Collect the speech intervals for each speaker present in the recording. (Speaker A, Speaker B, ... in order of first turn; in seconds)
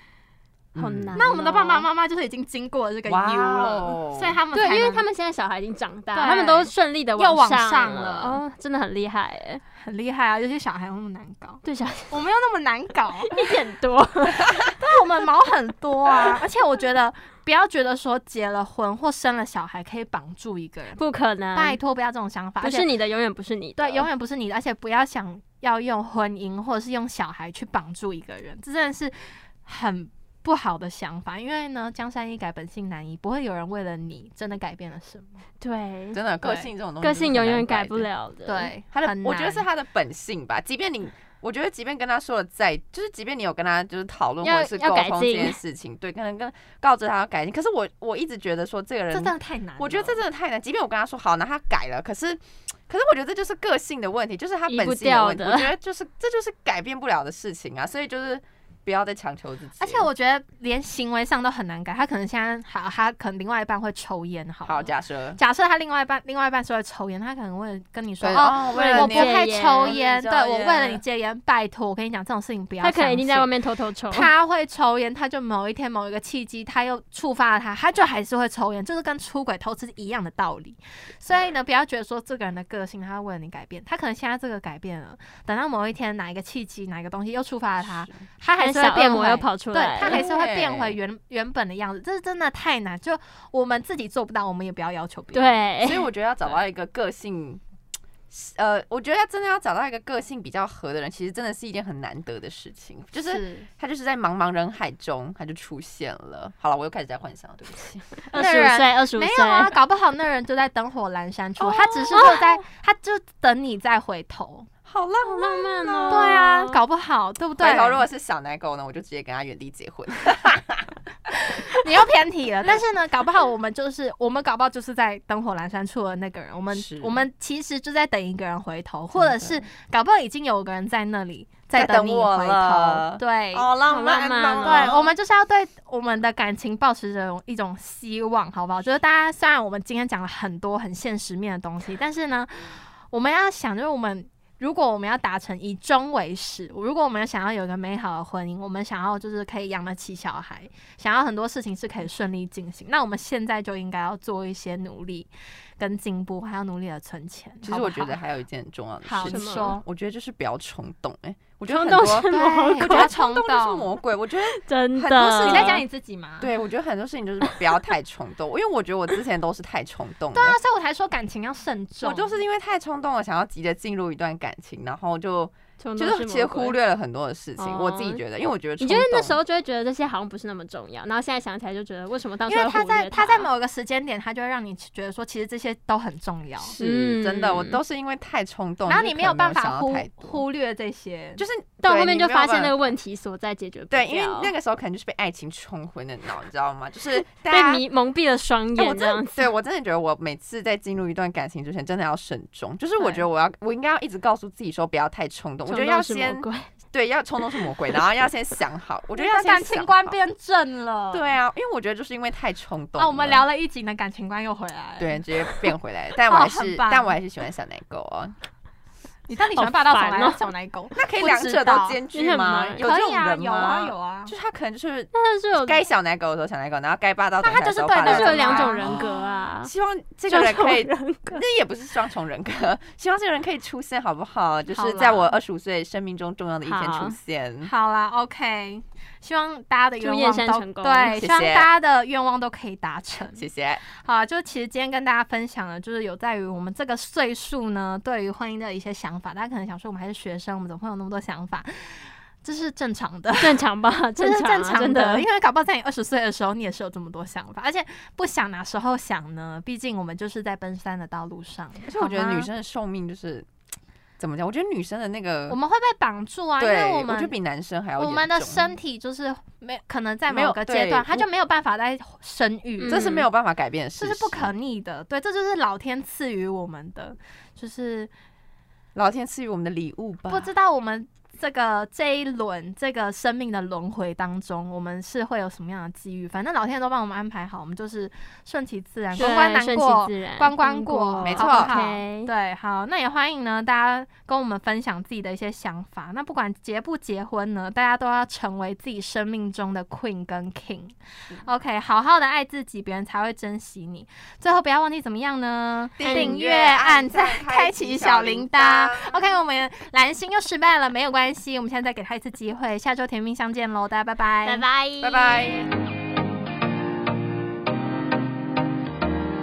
Speaker A: 0.7-1.2, 3.1-4.4, 36.1-38.1, 38.9-60.1, 64.6-65.4, 68.2-71.0, 87.8-88.1, 90.0-91.0, 95.8-97.6, 98.3-108.2, 114.9-116.2, 117.6-120.9, 126.7-127.2, 129.1-129.7, 131.7-135.1, 157.6-165.8, 166.4-170.6, 172.0-179.4, 186.6-190.4, 191.4-192.9, 193.9-197.8, 198.8-210.2, 211.1-213.4, 215.0-218.3, 220.9-237.7, 241.1-241.7, 243.3-243.8, 261.9-263.5, 264.2-265.6, 266.6-268.7, 270.3-271.3, 272.9-274.5, 278.9-280.5, 291.2-291.7, 306.0-309.2, 315.0-315.7
Speaker B: 0.8-1.9, 4.5-9.6, 11.6-12.2, 13.3-14.5, 21.0-21.8, 22.6-24.1, 35.6-36.2, 37.0-38.7, 44.4-45.6, 54.7-55.7, 68.7-70.0, 72.8-74.3, 88.6-90.2, 95.3-96.1, 108.3-109.7, 112.1-112.4, 115.2-116.8, 133.9-135.0, 159.2-159.8, 161.7-163.1, 164.5-165.8, 175.8-176.8, 177.6-178.2, 178.8-183.5, 186.8-187.8, 191.8-194.5, 197.4-199.5, 205.7-206.7, 219.6-220.4, 222.1-222.9, 225.1-225.8, 228.0-229.7, 230.3-231.4, 236.6-237.2, 240.0-241.2, 253.4-255.2, 272.8-273.2, 289.1-292.3, 306.0-306.4, 314.4-315.4
Speaker C: 1.1-5.1, 6.1-8.4, 9.8-13.4, 14.7-21.0, 21.5-22.9, 23.8-35.4, 36.4-36.7, 38.5-39.6, 49.1-50.2, 59.8-73.5, 74.1-95.6, 103.1-103.7, 108.3-114.7, 116.1-118.0, 121.4-133.7, 134.6-158.2, 159.0-159.8, 162.3-163.9, 165.4-166.5, 170.3-172.4, 182.5-186.7, 188.9-191.4, 209.1-211.3, 213.0-215.7, 216.2-217.1, 219.3-222.0, 222.8-224.3, 227.4-229.2, 234.7-235.3, 237.6-243.4, 244.0-253.6, 254.2-262.5, 265.5-267.3, 268.0-273.2, 273.9-278.1, 280.3-314.6